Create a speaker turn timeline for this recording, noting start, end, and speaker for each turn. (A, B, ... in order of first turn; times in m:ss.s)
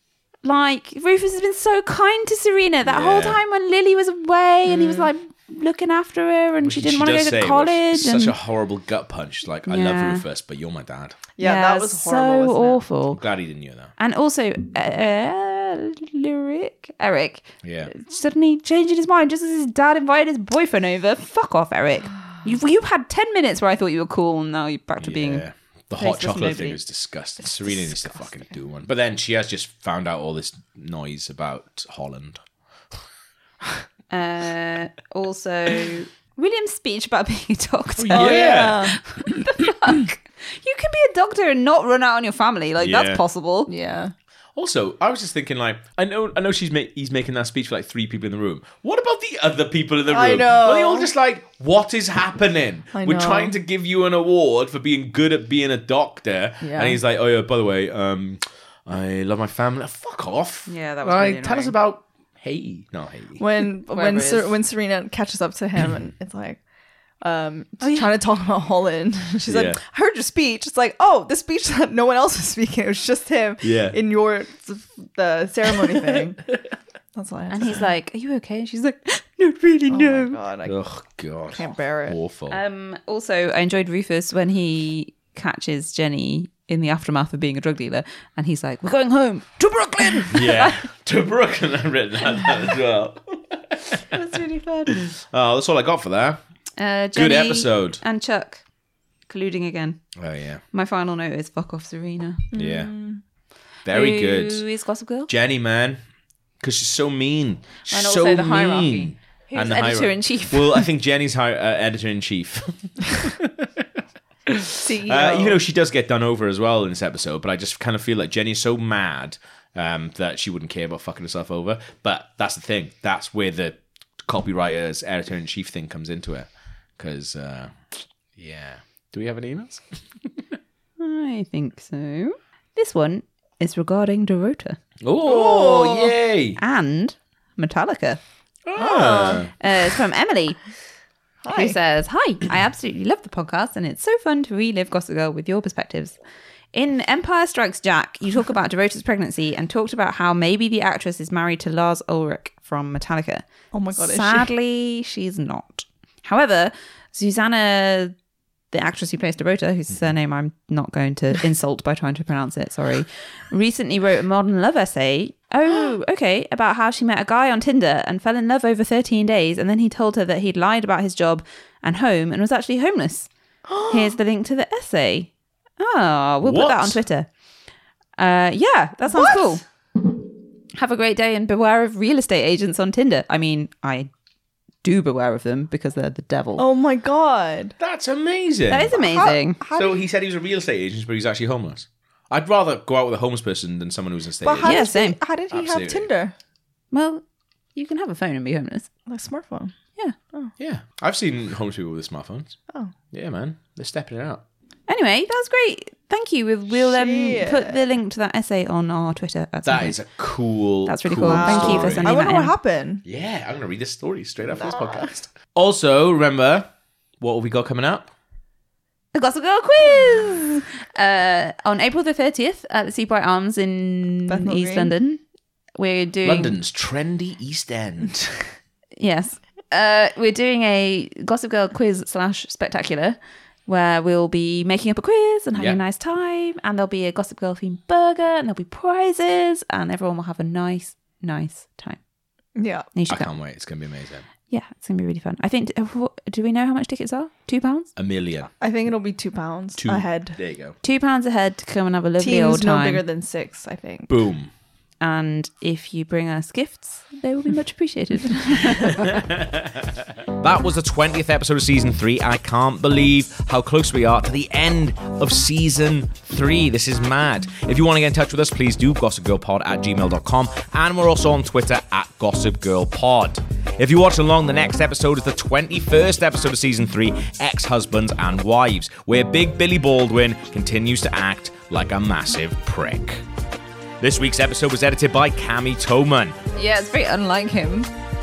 0:00.4-0:08.3 A
0:02.8-0:03.4 B
0:04.7-0:05.1 C
0:06.6-0:11.2 B
0:09.7-0:10.2 A
0:11.4-0:12.8 C
0:11.4-0:13.2 A
0:13.1-0:13.9 B
0:14.0-0:25.4 A
0:17.6-0:17.9 B
0:25.0-0:32.4 B
0:26.0-0:26.8 A
0:34.1-0:43.7 A
0:38.0-0:38.9 B
0:38.1-0:39.0 C
0:42.8-0:43.2 B
0:43.7-0:44.1 C
0:44.6-1:03.4 B
0:50.1-0:51.1 C
0:52.9-0:53.6 C
0:56.6-0:57.0 C
1:00.7-1:01.7 A
1:03.4-1:06.6 C
1:03.9-1:04.5 A
1:07.2-1:16.4 C
1:07.8-1:08.1 A
1:09.5-1:09.8 B
1:13.6-1:14.0 B
1:17.2-1:17.8 C
1:17.5-1:20.4 A
1:19.9-1:20.8 C
1:20.6-1:22.6 B
1:21.5-1:22.2 C
1:22.5-1:30.8 A
1:30.3-1:36.4 B
1:34.1-1:35.0 A
1:36.8-1:38.6 A
1:37.1-1:38.0 B
1:39.3-1:40.0 A
1:40.2-1:40.6 B
1:40.7-1:42.5 A
1:42.5-1:42.9 B
1:42.5-1:43.2 C
1:43.9-1:44.6 B
1:43.9-1:45.3 A
1:45.3-1:46.0 B
1:46.6-1:53.9 B
1:47.9-1:50.9 A
1:54.5-2:10.6 B
1:54.8-1:55.6 C
2:11.0-2:14.8 A
2:15.0-2:16.6 B
2:15.2-2:16.2 C
2:16.6-2:18.2 A
2:18.6-2:19.5 B
2:18.8-2:19.5 C
2:19.5-2:20.6 A
2:21.4-2:21.8 C
2:21.5-2:26.2 A
2:26.7-2:38.2 A
2:33.7-2:34.6 C
2:38.7-2:53.3 A
2:53.7-2:54.2 C
2:53.9-2:57.3 A
2:56.4-2:57.0 B
2:58.2-2:59.6 A
2:59.1-2:59.6 C
3:00.8-3:04.1 A
3:04.8-3:06.6 A
3:06.6-3:07.8 C
3:07.8-3:09.1 B
3:08.7-3:09.6 A
3:08.9-3:10.0 C
3:09.8-3:14.9 B
3:14.4-3:16.3 C
3:14.6-3:15.2 A
3:15.5-3:16.1 B
3:16.9-3:17.2 A
3:17.8-3:18.9 A
3:19.1-3:19.8 C
3:20.6-3:22.6 B
3:23.1-3:24.4 B
3:24.9-3:30.0 A
3:26.7-3:27.8 C
3:29.6-3:32.2 B
3:30.9-3:32.5 A
3:31.2-3:33.0 C
3:33.0-3:38.1 B
3:34.6-3:35.1 C
3:39.1-3:45.2 A
3:44.3-3:44.9 C
3:45.8-3:46.6 A
3:46.2-3:48.5 B
3:49.0-4:02.0 A
3:55.5-3:55.8 B
4:02.6-4:02.9 C
4:02.9-4:03.3 A
4:03.1-4:04.3 B
4:04.5-4:07.9 A
4:08.0-4:08.5 B
4:08.6-4:10.4 C
4:09.8-4:10.8 B
4:10.8-4:13.0 A
4:12.2-4:14.1 C
4:14.1-4:14.5 B
4:15.0-4:19.1 A
4:18.7-4:43.3 B
4:44.0-4:46.4 B
4:46.6-4:47.9 A